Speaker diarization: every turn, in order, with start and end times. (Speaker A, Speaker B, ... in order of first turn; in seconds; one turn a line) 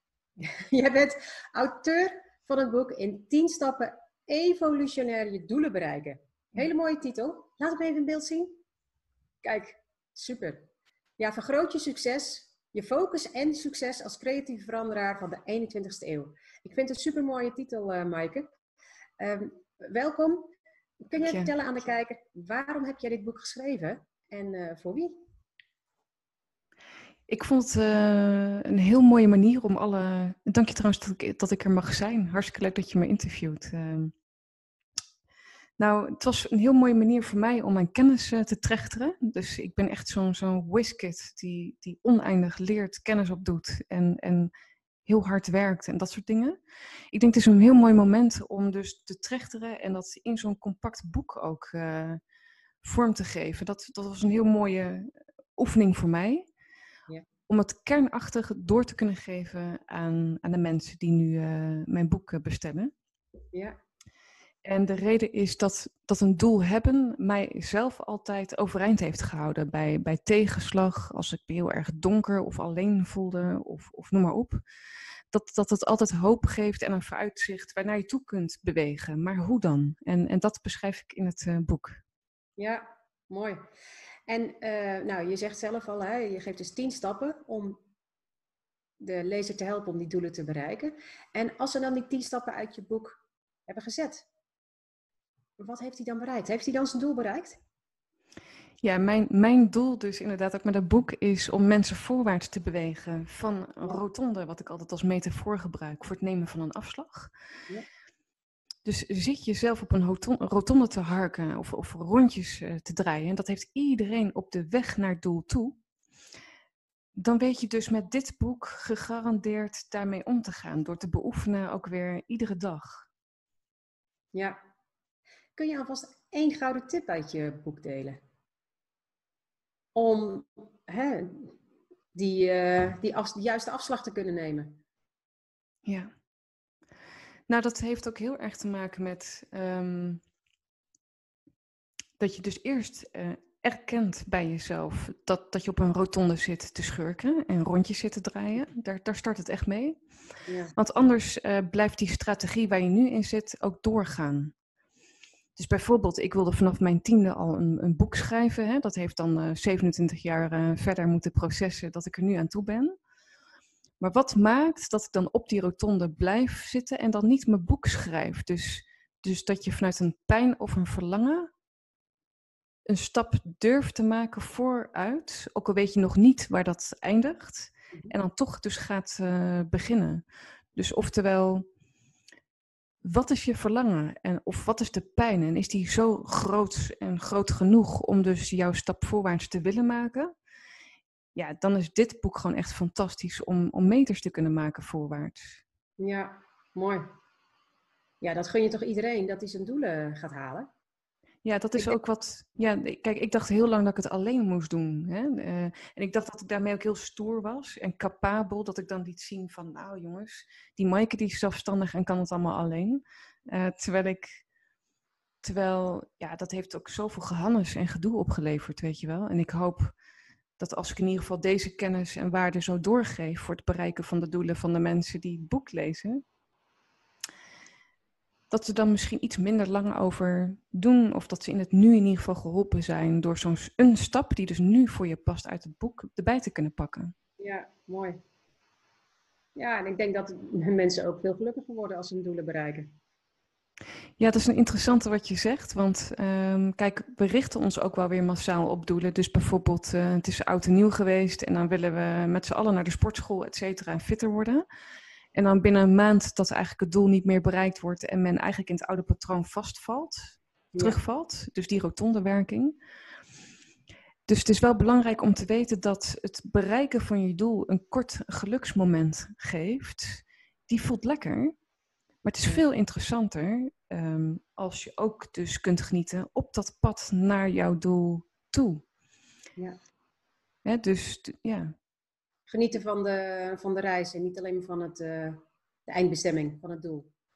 Speaker A: 0.4-8.6
Speaker A: 9.4-10.7
Speaker A: 11.2-18.5
Speaker A: 19.2-20.5
Speaker A: 21.1-25.2
Speaker B: 27.3-34.1
Speaker B: 35.8-44.5
Speaker B: 45.0-46.6
Speaker B: 47.1-52.2
Speaker B: 52.8-56.4
Speaker B: 57.5-62.9
Speaker B: 64.6-74.6
Speaker B: 75.3-82.0
Speaker A: 82.6-83.6
Speaker A: 84.3-87.8
Speaker A: 89.0-94.2
Speaker A: 95.6-97.6
Speaker B: 98.8-107.3
Speaker B: 108.8-115.8
Speaker B: 117.2-123.1
Speaker A: 124.3-124.6
Speaker A: 125.5-128.2
Speaker A: 129.9-131.5
Speaker A: 132.1-134.8
Speaker B: 135.8-136.1
Speaker B: 137.5-140.2
Speaker B: 142.2-150.0
Speaker A: 150.5-150.7
Speaker B: 150.8-154.5
Speaker B: 155.6-162.9
Speaker B: 164.0-171.5
Speaker B: 172.9-180.2
Speaker B: 180.8-181.6
Speaker B: 183.0-190.3
Speaker B: 191.3-195.6
Speaker A: 196.0-197.1
Speaker A: 198.2-200.7
Speaker B: 201.4-214.4
Speaker B: 215.4-219.9
Speaker B: 220.6-226.2
Speaker B: 228.5-237.1
Speaker A: 237.4-238.2
Speaker A: 239.5-242.9
Speaker B: 244.2-254.6
Speaker B: 255.3-262.8
Speaker B: 264.3-271.5
Speaker B: 272.2-278.8
Speaker B: 280.6-281.7
Speaker A: 282.5-287.1